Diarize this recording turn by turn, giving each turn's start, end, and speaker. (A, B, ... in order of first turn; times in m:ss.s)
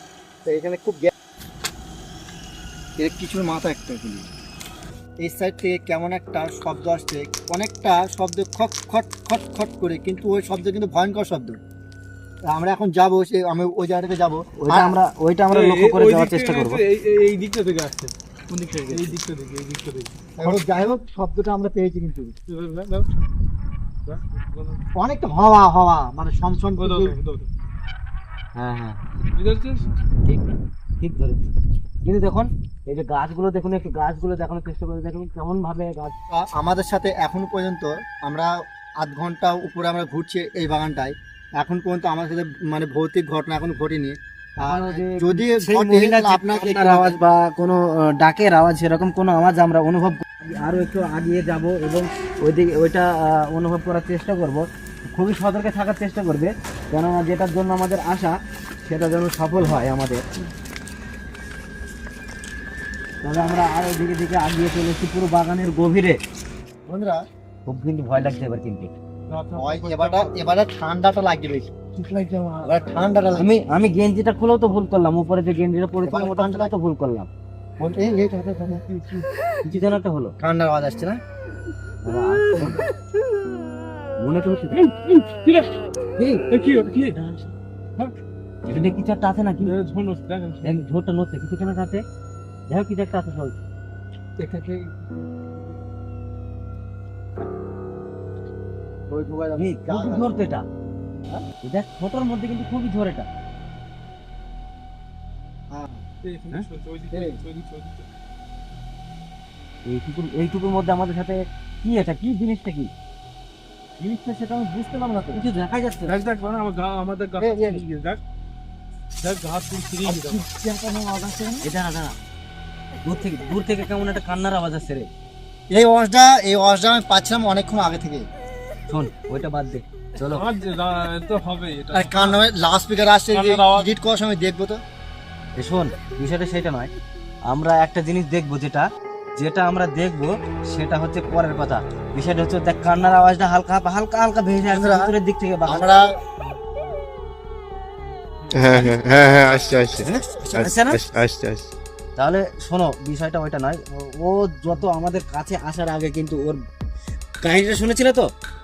0:00.4-0:01.1 A
0:03.0-0:04.3 A
0:05.2-0:11.6 A
0:12.5-0:15.0 A
0:14.6-0:16.8 B
0:15.5-0:18.1 C
0:18.5-0:19.2 A
0:18.9-0:20.7 C
0:20.4-0:22.3 A
0:22.5-0:23.1 C
0:24.0-0:24.8 C
0:25.0-0:27.1 A
0:26.8-0:27.5 C
0:28.6-0:29.0 B
0:29.3-0:29.8 C
0:29.9-0:30.4 B
0:31.0-0:31.4 B
0:32.0-0:36.1 B
0:36.3-0:47.2 A
0:44.6-1:00.2 B
1:03.2-1:06.2 B
1:06.8-1:07.2 A
1:07.7-1:08.9 B
1:09.3-1:10.4 C
1:09.6-1:11.7 A
1:12.0-1:12.6 C
1:12.6-1:13.4 A
1:13.3-1:17.3 B
1:16.0-1:16.7 A
1:17.8-1:18.8 A
1:18.9-1:19.2 C
1:19.6-1:20.3 B
1:20.4-1:21.2 A
1:22.0-1:22.8 B
1:24.2-1:24.9 B
1:25.1-1:25.7 C
1:26.2-1:26.5 B
1:26.5-1:28.1 C
1:28.6-1:29.7 B
1:29.6-1:30.8 C
1:30.6-1:32.0 B
1:32.7-1:33.5 B
1:34.4-1:35.5 A
1:39.1-1:40.3 A
1:39.6-1:40.6 B
1:41.6-1:43.3 B
1:45.7-1:46.0 A
1:46.2-1:48.1 C
1:47.1-1:47.4 A
1:49.8-1:52.9 B
1:54.0-1:55.4 A
1:55.3-1:56.2 B
1:56.1-1:58.2 C
1:57.4-1:57.8 A
1:59.2-2:00.5 C
2:00.0-2:01.7 A
2:01.6-2:02.2 B
2:03.0-2:05.1 B
2:05.7-2:08.3 A
2:08.9-2:10.4 B
2:10.3-2:12.4 C
2:11.9-2:14.8 A
2:13.3-2:13.9 C
2:15.6-2:16.9 B
2:17.5-2:25.9 B
2:24.7-2:25.1 A
2:25.6-2:26.1 A
2:28.5-2:30.7 A
2:28.5-2:31.7 D
2:30.1-2:31.0 B
2:32.2-2:36.6 B
2:37.4-2:38.3 B